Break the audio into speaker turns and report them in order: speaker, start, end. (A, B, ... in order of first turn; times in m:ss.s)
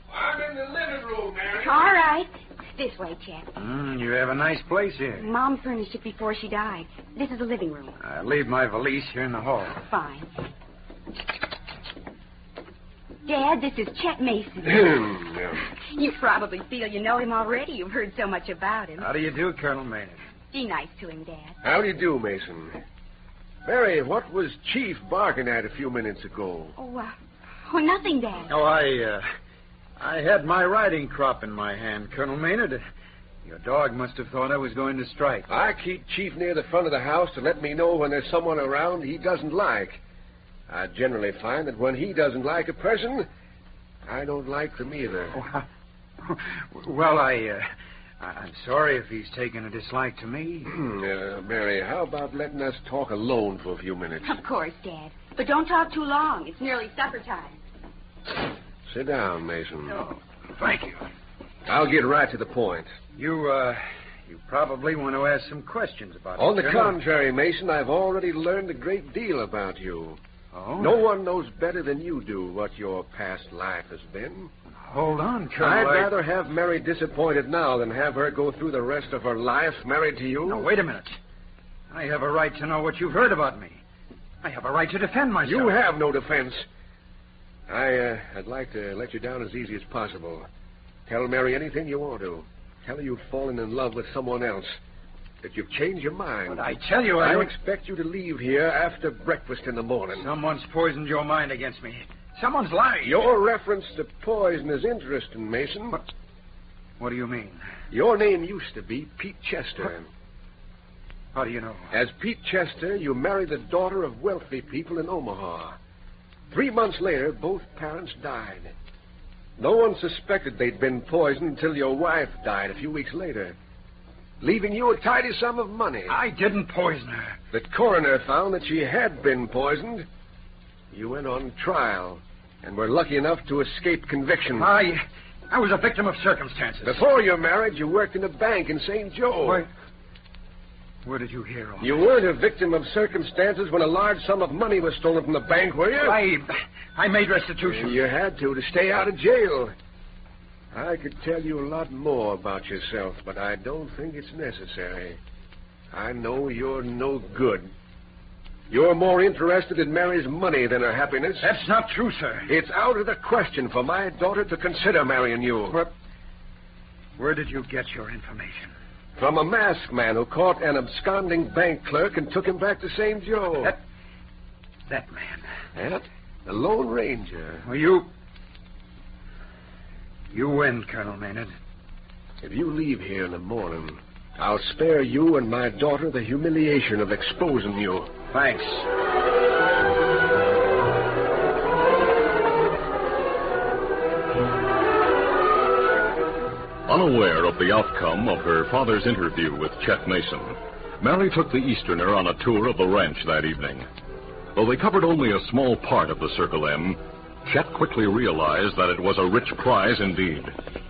0:00.1-0:02.0 A
0:01.6-0:03.4 B
0:03.6-0:05.3 C
0:05.2-0:08.0 B
0:08.0-0:09.8 C
0:09.9-0:10.3 B
0:13.3-0:14.7 B
0:14.6-0:15.6 A
0:15.9-0:19.0 B
0:19.0-0:20.2 C
0:20.5-0:21.5 B
0:21.6-0:22.8 A
0:23.6-0:26.8 A
0:26.8-0:27.1 B
0:27.7-0:28.4 B
0:28.5-0:29.2 C
0:30.0-0:32.8 C
0:33.4-0:35.5 C
0:35.5-0:40.0 A
0:40.7-0:43.3 A
0:44.1-0:45.4 A
0:45.3-0:45.6 C
0:46.2-0:47.7 C
0:48.2-0:50.8 C
0:50.7-0:54.4 A
0:54.3-0:57.5 B
0:58.9-1:00.0 A
0:59.9-1:01.1 C
1:01.7-1:02.9 A
1:03.2-1:07.0 C
1:06.4-1:10.2 A
1:10.5-1:11.0 C
1:10.8-1:14.5 A
1:14.9-1:16.1 C
1:15.6-1:20.7 A
1:20.4-1:21.2 C
1:21.9-1:23.8 C
1:24.4-1:25.8 C
1:25.4-1:26.7 A
1:27.7-1:30.5 A
1:31.1-1:34.8 A
1:35.4-1:36.6 A
1:36.5-1:37.5 C
1:37.2-1:40.3 A
1:40.2-1:43.2 C
1:43.0-1:46.0 A
1:47.0-1:47.6 C
1:47.9-1:50.1 A
1:51.3-1:51.9 C
1:51.9-1:55.8 A
1:56.5-1:58.7 A
1:59.6-2:03.6 A
2:04.4-2:06.2 A
2:06.1-2:07.4 C
2:07.5-2:10.1 A
2:10.9-2:14.7 A
2:14.5-2:17.0 C
2:16.8-2:19.7 A
2:19.4-2:19.7 C
2:21.0-2:22.0 C
2:21.8-2:26.2 A
2:26.0-2:28.0 C
2:27.6-2:29.7 A
2:30.7-2:35.2 A
2:35.9-2:37.7 A
2:38.7-2:41.5 A
2:41.4-2:42.5 C
2:42.5-2:45.8 A
2:47.2-2:48.7 C
2:49.2-2:53.8 A
2:54.9-2:55.4 C
2:55.8-2:57.7 A
2:57.6-2:58.1 C
3:00.3-3:01.5 C
3:02.4-3:08.1 A
3:08.3-3:08.9 C
3:16.9-3:23.8 D
3:24.6-3:30.6 D